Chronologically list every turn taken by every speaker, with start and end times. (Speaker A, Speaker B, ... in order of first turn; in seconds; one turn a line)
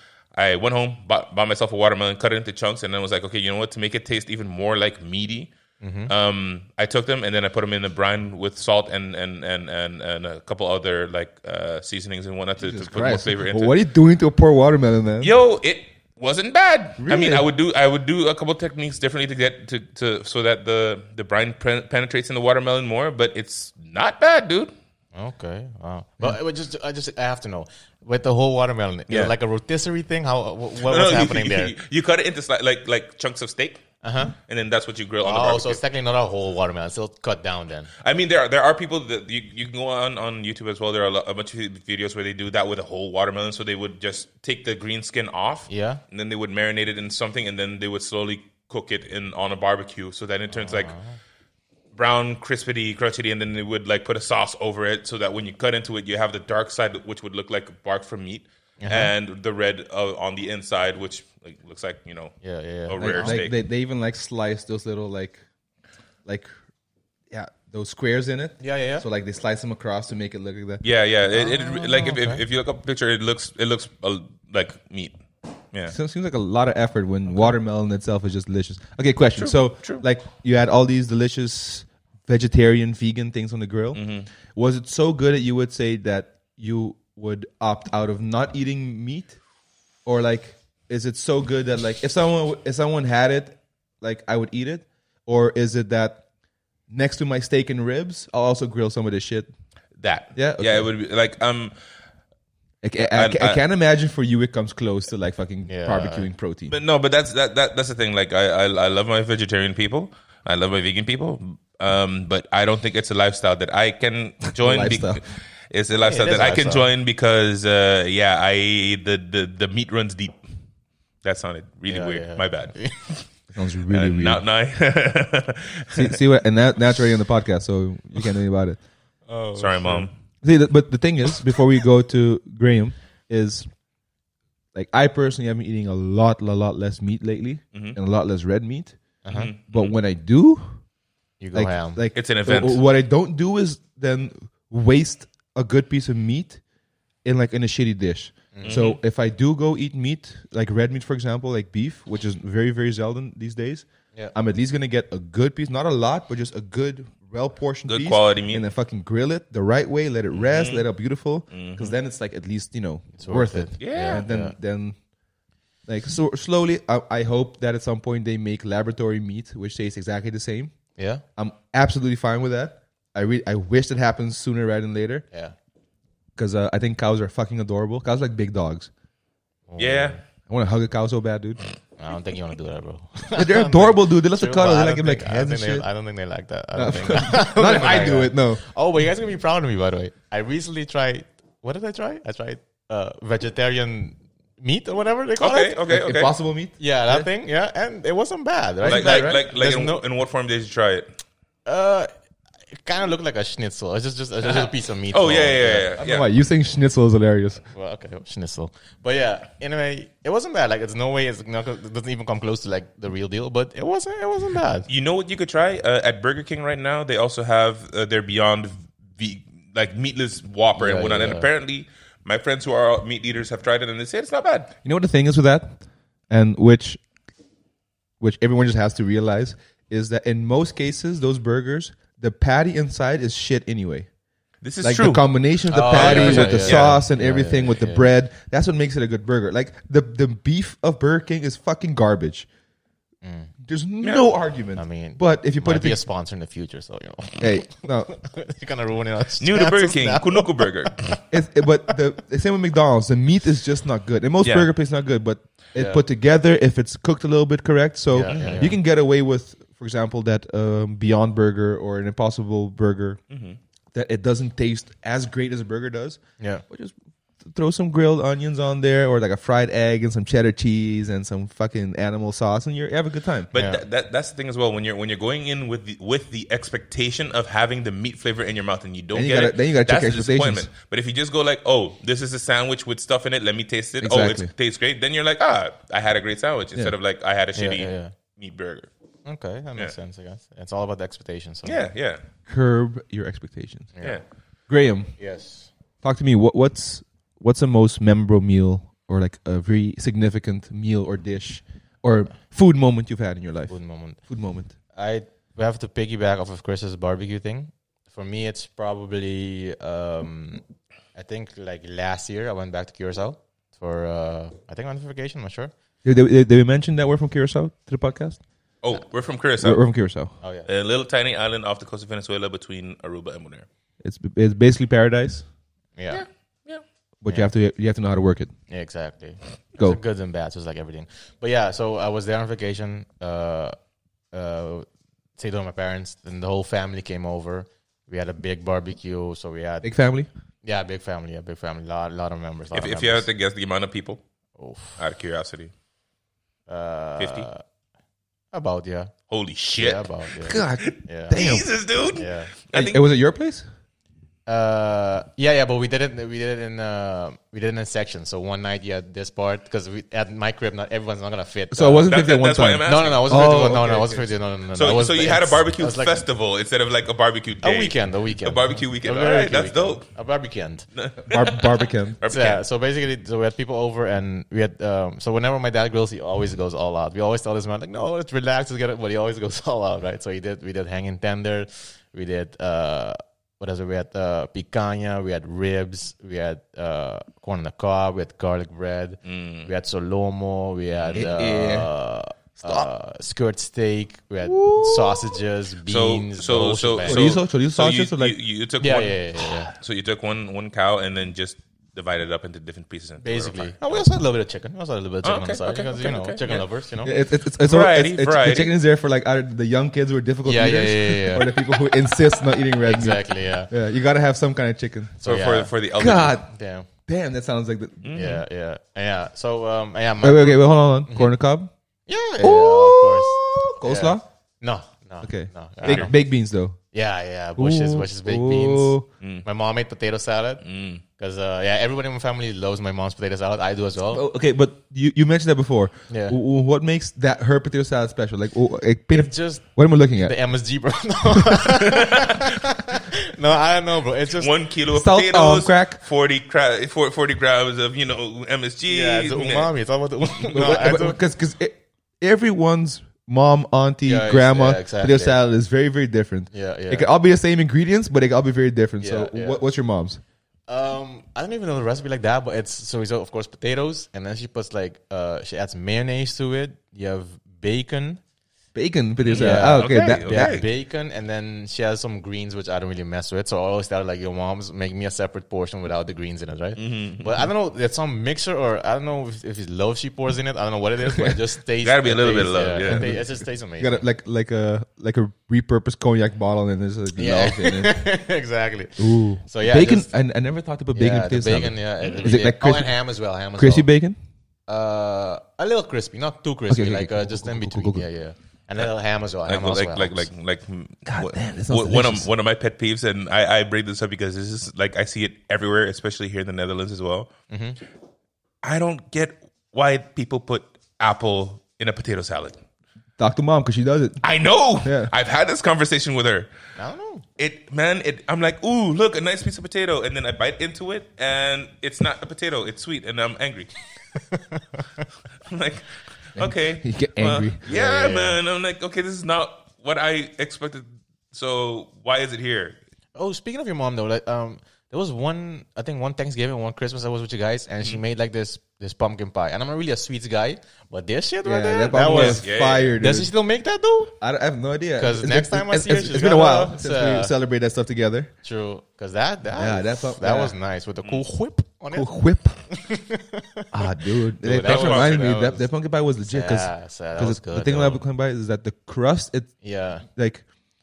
Speaker A: 0.3-5.5
Speaker B: 5.8-6.1
Speaker A: 6.1-13.8
Speaker C: 12.6-15.3
Speaker A: 15.2-24.7
Speaker C: 17.0-17.4
Speaker B: 25.1-31.7
Speaker A: 30.8-33.8
Speaker B: 34.0-34.4
Speaker A: 34.5-35.8
Speaker B: 35.2-37.9
Speaker A: 38.0-50.9
Speaker B: 45.7-46.0
Speaker B: 50.5-51.2
Speaker A: 51.9-63.5
Speaker B: 58.8-59.1
Speaker B: 62.4-63.4
Speaker C: 63.0-65.4
Speaker C: 66.2-66.5
Speaker C: 67.3-70.8
Speaker B: 68.6-69.1
Speaker A: 70.8-75.2
Speaker B: 71.3-72.4
Speaker C: 75.9-89.4
Speaker A: 79.4-80.0
Speaker A: 84.0-84.3
Speaker C: 90.1-96.2
Speaker C: 96.9-99.5
Speaker A: 100.0-101.8
Speaker C: 100.3-100.9
Speaker C: 102.8-106.8
Speaker A: 103.0-103.6
Speaker B: 105.7-106.3
Speaker A: 106.7-120.4
Speaker C: 114.5-115.2
Speaker B: 116.0-116.9
Speaker A: 121.2-122.9
Speaker B: 121.9-123.0
Speaker C: 123.5-124.4
Speaker A: 123.9-126.2
Speaker C: 125.9-128.8
Speaker B: 129.3-130.1
Speaker A: 129.6-130.1
Speaker C: 130.4-133.7
Speaker C: 134.7-139.0
Speaker B: 139.2-139.5
Speaker A: 139.3-140.0
Speaker C: 139.7-140.8
Speaker B: 141.4-142.0
Speaker C: 141.5-146.6
Speaker A: 142.2-142.8
Speaker C: 147.2-165.0
Speaker B: 148.5-148.8
Speaker A: 148.6-149.0
Speaker A: 157.9-158.6
Speaker A: 160.3-160.9
Speaker A: 161.5-161.9
Speaker B: 163.2-164.6
Speaker A: 163.8-164.2
Speaker C: 165.9-170.8
Speaker B: 171.0-171.2
Speaker C: 171.4-175.2
Speaker C: 176.4-178.9
Speaker B: 179.7-180.2
Speaker A: 179.8-180.2
Speaker C: 180.5-181.6
Speaker B: 182.0-195.8
Speaker C: 183.3-185.9
Speaker C: 186.7-188.6
Speaker A: 195.4-196.3
Speaker C: 195.9-197.3
Speaker B: 196.8-200.0
Speaker C: 198.8-199.4
Speaker A: 198.8-201.1
Speaker B: 201.7-202.1
Speaker B: 202.7-205.9
Speaker A: 204.5-206.3
Speaker C: 206.0-207.7
Speaker B: 207.7-214.9
Speaker A: 214.9-224.7
Speaker B: 220.8-221.5
Speaker C: 224.8-225.8
Speaker C: 226.3-227.0
Speaker C: 228.2-234.1
Speaker A: 234.6-237.0
Speaker C: 234.8-242.5
Speaker B: 235.7-238.1
Speaker B: 243.2-243.5
Speaker C: 243.6-246.0
Speaker B: 244.8-251.2
Speaker C: 247.4-248.1
Speaker A: 249.4-251.2
Speaker C: 251.3-263.2
Speaker A: 254.4-254.7
Speaker B: 255.8-256.0
Speaker B: 258.1-258.8
Speaker A: 258.3-258.7
Speaker A: 263.3-263.6
Speaker C: 263.9-273.5
Speaker B: 266.4-266.6
Speaker A: 273.5-288.9
Speaker B: 273.5-273.8
Speaker C: 279.1-280.7
Speaker C: 284.0-284.5
Speaker B: 287.6-288.1
Speaker B: 289.2-291.9
Speaker A: 291.6-292.2
Speaker C: 292.5-293.9
Speaker B: 293.9-294.2
Speaker C: 294.7-295.1
Speaker B: 295.2-295.7
Speaker C: 296.0-304.8
Speaker B: 303.7-304.2
Speaker B: 304.9-310.6
Speaker B: 311.1-315.7
Speaker C: 316.0-318.4
Speaker A: 318.8-319.9
Speaker C: 319.6-320.4
Speaker B: 320.4-320.7
Speaker A: 320.7-323.7
Speaker C: 324.0-325.5
Speaker B: 326.0-326.2
Speaker A: 326.1-326.8
Speaker C: 327.2-328.5
Speaker B: 328.7-333.8
Speaker B: 334.3-339.9
Speaker C: 339.8-340.3
Speaker B: 340.6-343.3
Speaker A: 342.7-344.2
Speaker B: 344.6-345.0
Speaker A: 345.0-345.7
Speaker B: 346.7-347.6
Speaker A: 347.2-347.5
Speaker B: 348.5-349.1
Speaker A: 349.3-353.0
Speaker B: 349.8-351.5
Speaker C: 350.4-351.7
Speaker B: 352.1-352.5
Speaker C: 352.7-353.7
Speaker B: 354.5-362.1
Speaker C: 361.7-364.2
Speaker A: 362.1-364.1
Speaker B: 362.8-366.2
Speaker A: 364.7-370.0
Speaker B: 367.6-370.9
Speaker A: 371.0-372.6
Speaker C: 371.2-372.2
Speaker B: 372.3-397.4
Speaker A: 389.2-389.7
Speaker A: 390.9-391.3
Speaker C: 391.1-391.9
Speaker C: 394.5-395.4
Speaker A: 395.9-404.0
Speaker C: 397.1-398.4
Speaker B: 398.8-399.7
Speaker B: 403.2-407.1
Speaker A: 405.2-406.7
Speaker C: 407.0-415.2
Speaker A: 407.6-408.7
Speaker B: 410.4-412.2
Speaker B: 412.8-413.7
Speaker B: 415.2-415.7
Speaker A: 415.2-416.4
Speaker C: 416.0-416.5
Speaker B: 416.5-416.9
Speaker C: 417.1-418.2
Speaker A: 418.0-418.4
Speaker B: 418.1-421.4
Speaker C: 420.2-421.7
Speaker B: 422.1-426.2
Speaker C: 422.4-424.2
Speaker C: 425.2-426.8
Speaker A: 425.9-426.1
Speaker B: 426.9-430.6
Speaker C: 427.6-429.1
Speaker A: 429.2-429.5
Speaker A: 430.6-431.0
Speaker B: 431.2-434.2
Speaker C: 434.1-440.4
Speaker B: 436.1-436.4
Speaker B: 439.1-444.5
Speaker A: 441.8-442.6
Speaker A: 444.3-449.7
Speaker C: 444.9-446.0
Speaker B: 448.9-451.2
Speaker C: 450.5-460.2
Speaker B: 454.1-455.4
Speaker B: 456.5-457.1
Speaker B: 459.0-459.6
Speaker B: 460.7-468.2
Speaker C: 468.8-470.6
Speaker A: 469.2-470.7
Speaker B: 469.3-484.0
Speaker A: 476.8-477.5
Speaker A: 481.8-483.2
Speaker C: 482.9-488.0
Speaker B: 487.2-490.1
Speaker C: 489.0-492.9
Speaker B: 490.9-493.9
Speaker A: 492.0-492.3
Speaker C: 493.6-494.2
Speaker B: 494.7-500.3
Speaker C: 496.7-498.1
Speaker A: 499.5-507.3
Speaker C: 501.1-502.3
Speaker B: 507.5-507.8
Speaker A: 508.6-512.6
Speaker C: 513.2-514.2
Speaker A: 514.2-516.5
Speaker C: 514.8-515.1
Speaker B: 516.8-517.2
Speaker A: 517.4-523.8
Speaker B: 524.1-525.1
Speaker A: 525.5-532.8
Speaker C: 526.4-527.6
Speaker B: 527.7-528.4
Speaker B: 533.1-544.1
Speaker C: 541.4-543.3
Speaker A: 542.0-543.0
Speaker C: 544.2-548.3
Speaker B: 545.0-547.3
Speaker B: 548.4-555.7
Speaker C: 549.5-550.5
Speaker C: 551.9-552.6
Speaker C: 553.7-559.6
Speaker A: 554.6-555.4
Speaker B: 556.3-558.0
Speaker B: 559.6-560.0
Speaker C: 560.1-560.5